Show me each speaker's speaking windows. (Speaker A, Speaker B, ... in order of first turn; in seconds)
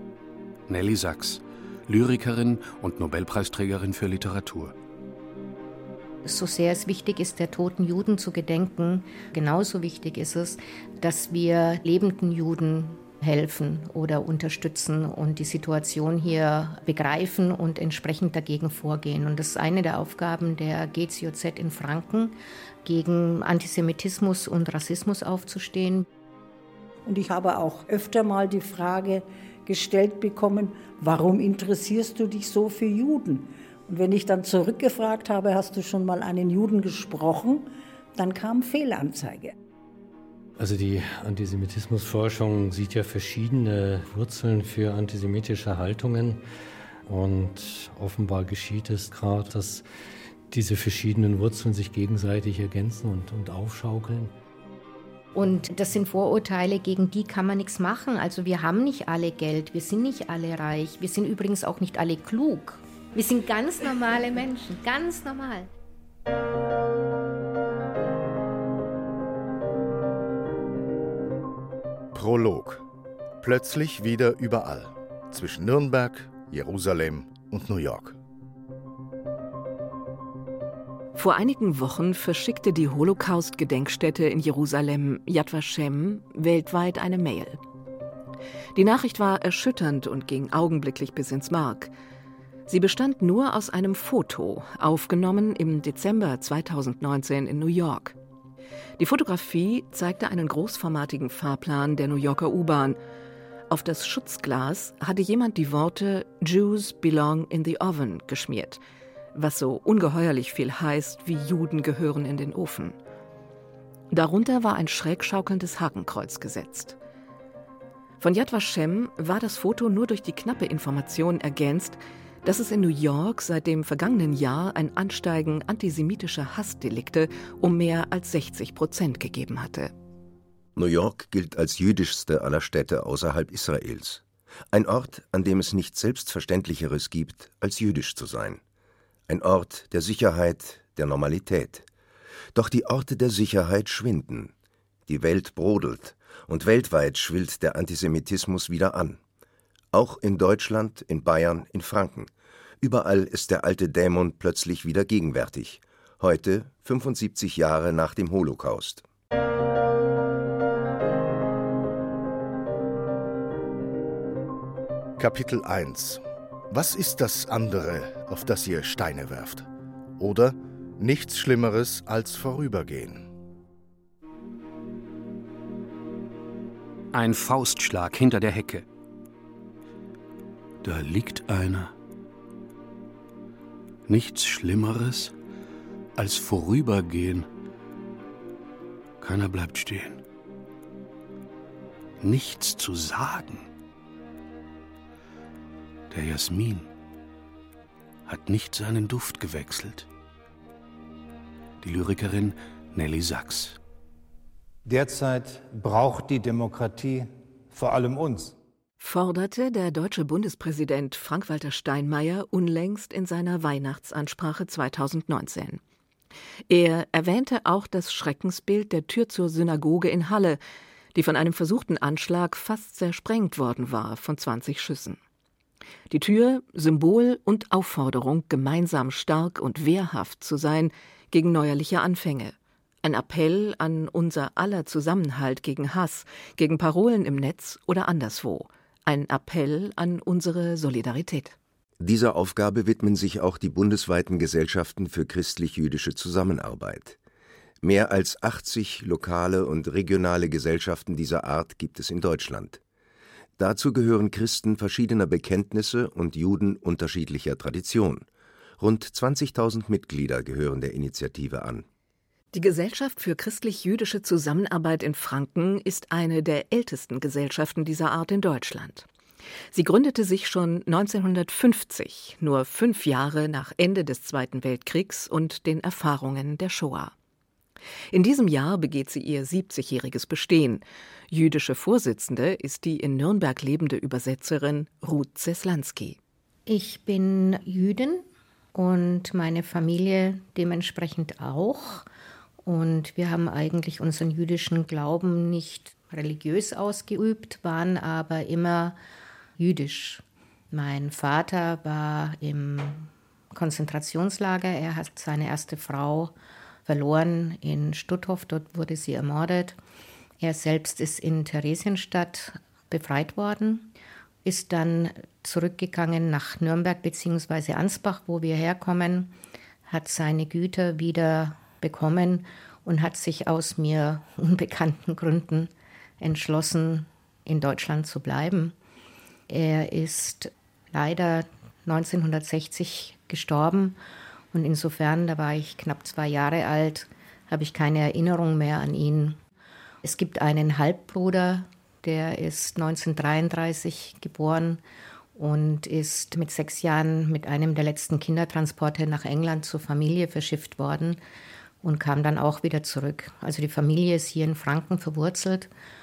Speaker A: 0.7-4.7, 177.1-178.8, 180.8-181.9, 184.1-185.3, 186.2-187.5, 189.2-190.2, 192.2-193.7, 196.1-196.9, 198.2-200.1, 201.8-203.8
Speaker B: 6.2-26.1, 55.3-65.7, 286.7-292.1, 292.6-298.9, 299.6-306.3, 306.8-309.8, 310.4-313.9, 314.4-319.3, 319.9-328.7, 329.5-334.0, 334.5-339.4, 340.0-344.8, 345.3-351.2, 351.8-355.7
Speaker C: 27.1-39.5
Speaker D: 40.6-46.4, 47.0-49.8, 50.5-54.3
Speaker E: 72.1-72.8, 73.4-78.2, 165.2-173.3
Speaker F: 81.1-87.6, 88.7-91.9, 92.7-98.2, 99.0-103.0, 103.7-108.8, 109.3-113.0, 114.1-117.0, 118.2-129.9, 209.0-215.8, 216.7-220.6, 221.1-225.2, 226.1-241.6, 262.5-269.1, 269.7-277.1, 278.1-286.2
Speaker G: 130.8-138.6, 139.3-141.8, 142.5-144.5, 145.1-149.2, 149.9-152.3, 152.8-159.0, 242.0-247.2, 247.8-252.8, 253.6-258.2, 258.8-261.9
Speaker H: 204.8-208.5